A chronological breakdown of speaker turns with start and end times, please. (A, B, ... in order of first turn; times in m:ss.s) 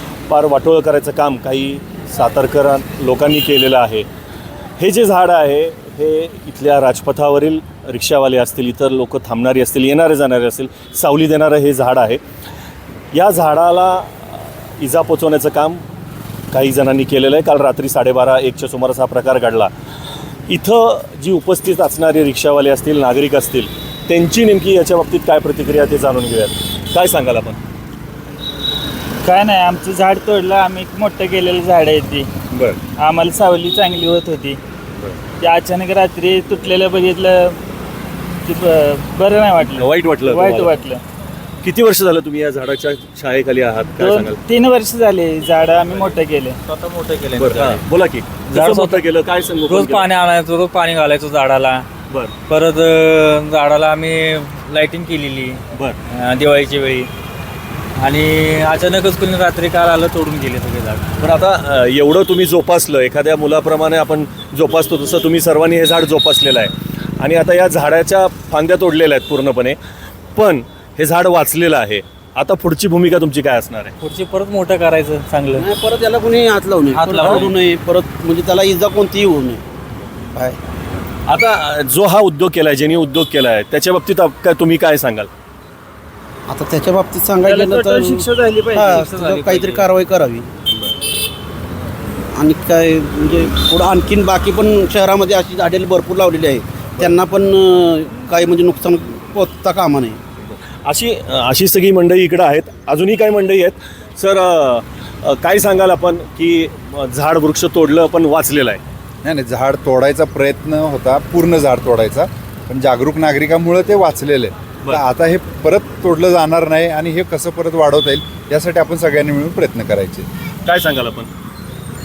0:00.3-0:04.0 A
0:04.8-0:12.2 A
0:13.1-0:15.8 A
0:16.5-0:19.7 A
0:20.5-0:27.6 A
0:29.2-0:32.3 B
0:32.5-0:32.8 A
0:33.0-0:34.6 B
0:35.4-0:37.6 B
0:38.4-0:41.0 B
0:39.6-0:40.7 A
0:41.6-0:44.4 A
0:44.0-0:46.6 B
0:46.7-0:47.8 C
0:47.4-0:50.1 A
0:48.5-0:49.0 C
0:49.7-0:51.9 C
0:52.1-0:52.3 A
0:52.5-0:57.1 C
0:55.7-0:56.0 A
0:58.0-1:01.1 C
1:01.2-1:09.8 A
1:10.3-1:14.0 A
1:14.0-1:15.7 C
1:15.6-1:19.6 D
1:16.9-1:17.5 C
1:20.3-1:20.6 D
1:21.3-1:25.3 A
1:26.5-1:30.8 D
1:27.4-1:29.9 B
1:32.3-1:40.2 D
1:40.8-1:48.8 A
1:49.2-2:00.3 E
2:00.6-2:01.3 A